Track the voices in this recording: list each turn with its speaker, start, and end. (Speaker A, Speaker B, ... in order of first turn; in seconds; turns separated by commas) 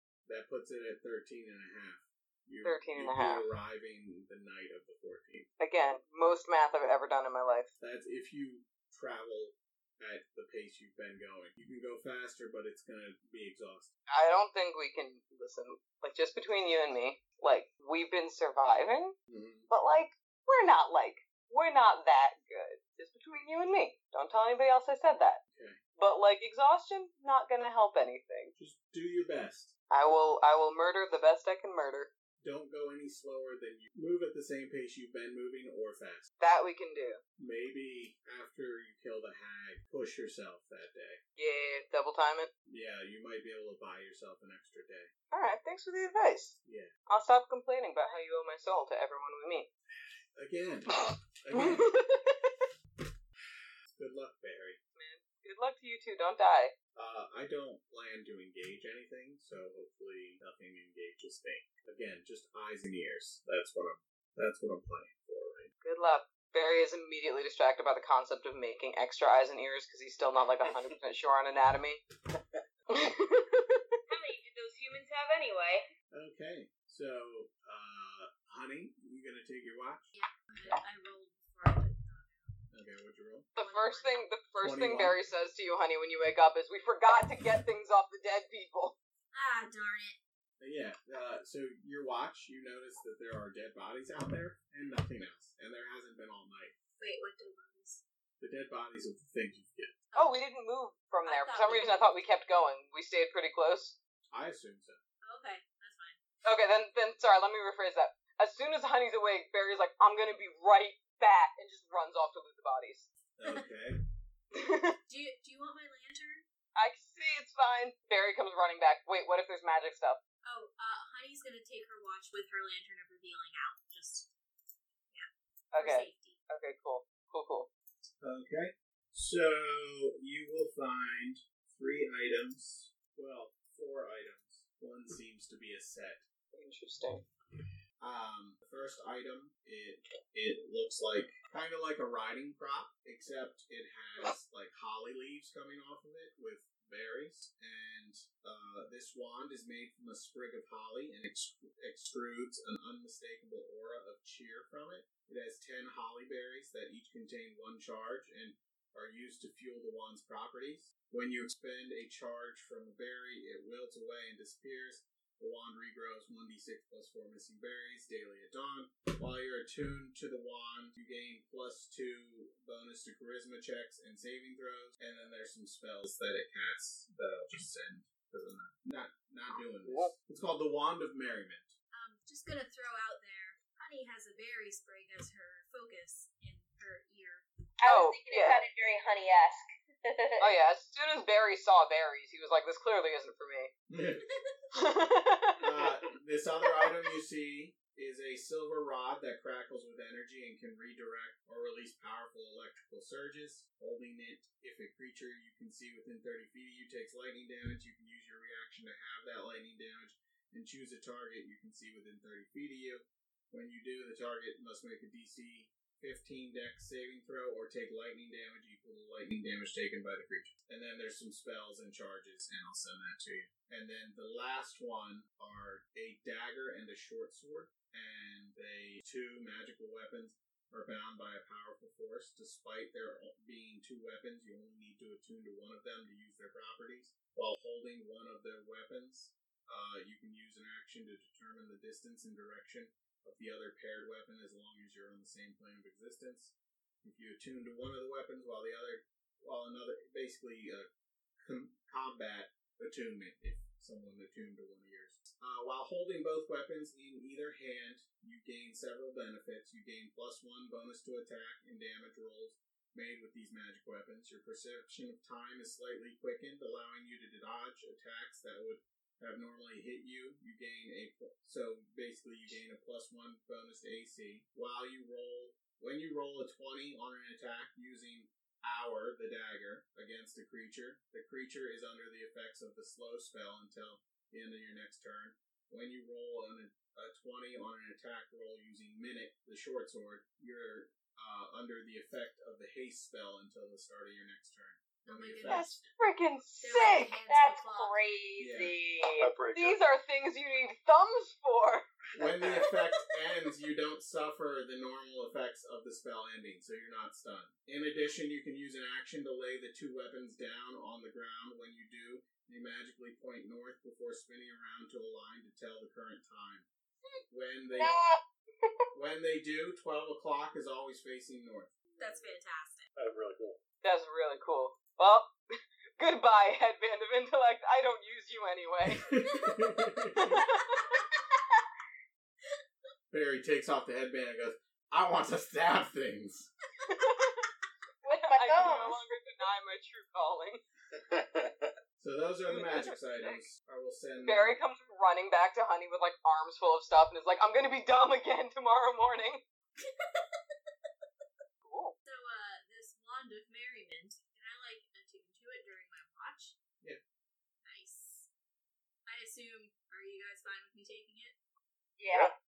Speaker A: 0.3-5.5, Speaker B: 2.6-3.5, Speaker B: 5.6-7.7, Speaker A: 7.8-13.9, Speaker B: 14.1-19.1, Speaker A: 19.3-19.7, Speaker B: 19.7-25.4, Speaker A: 25.5-25.8, Speaker B: 26.0-28.5, Speaker A: 28.6-29.7, Speaker B: 29.9-32.1, Speaker A: 32.4-36.3, Speaker B: 36.4-37.2, Speaker A: 37.4-41.2, Speaker B: 41.4-42.5, Speaker A: 42.7-45.1, Speaker B: 45.3-46.5, Speaker A: 46.6-46.9, Speaker B: 47.1-49.7, Speaker A: 50.4-51.9, Speaker B: 51.0-52.6, Speaker A: 53.9-54.8, Speaker B: 55.0-56.7, Speaker A: 57.0-65.7, Speaker B: 65.8-72.0, Speaker B: 72.9-74.0, Speaker C: 74.1-75.9, Speaker A: 76.1-80.1, Speaker D: 80.1-82.5, Speaker A: 82.7-83.5, Speaker B: 83.5-89.0, Speaker D: 83.6-84.2, Speaker A: 84.6-85.2, Speaker D: 89.3-90.2, Speaker A: 90.6-96.7, Speaker D: 97.0-98.0, Speaker A: 98.4-100.0, Speaker D: 100.1-100.4, Speaker B: 100.1-104.0, Speaker D: 101.2-102.2, Speaker A: 104.3-105.0, Speaker D: 105.2-106.2, Speaker B: 106.4-113.1, Speaker A: 113.4-114.0, Speaker B: 114.5-115.0, Speaker D: 115.1-116.4, Speaker B: 116.8-120.2, Speaker D: 120.5-124.3, Speaker D: 125.1-126.4, Speaker B: 125.7-127.7, Speaker A: 128.2-136.2, Speaker B: 136.5-137.2, Speaker A: 138.0-181.7, Speaker B: 179.5-180.1, Speaker D: 181.9-187.4, Speaker C: 187.8-190.5, Speaker B: 187.8-188.6, Speaker B: 190.4-193.7, Speaker A: 193.9-194.2, Speaker B: 194.7-195.8, Speaker A: 195.6-250.9, Speaker A: 251.4-295.6, Speaker D: 295.0-295.9, Speaker B: 295.4-297.2, Speaker D: 296.6-298.0, Speaker C: 297.3-299.3, Speaker A: 298.4-298.7, Speaker E: 299.2-299.8, Speaker B: 299.5-301.8, Speaker E: 302.1-302.7, Speaker A: 302.2-316.7, Speaker A: 317.3-317.9, Speaker C: 317.8-318.1, Speaker A: 318.9-321.7, Speaker D: 322.0-322.9, Speaker E: 322.9-323.6, Speaker B: 323.8-325.3, Speaker B: 326.0-329.1, Speaker A: 328.9-330.4, Speaker B: 330.3-331.1, Speaker A: 333.1-336.5, Speaker B: 336.8-337.5, Speaker C: 338.0-339.0, Speaker B: 338.1-340.6, Speaker E: 340.9-341.7, Speaker A: 342.0-344.6, Speaker B: 342.5-343.4, Speaker B: 344.2-349.4, Speaker D: 349.8-350.6, Speaker B: 351.6-351.9, Speaker D: 352.1-356.6, Speaker D: 357.6-358.3, Speaker D: 359.1-361.4, Speaker C: 362.0-362.3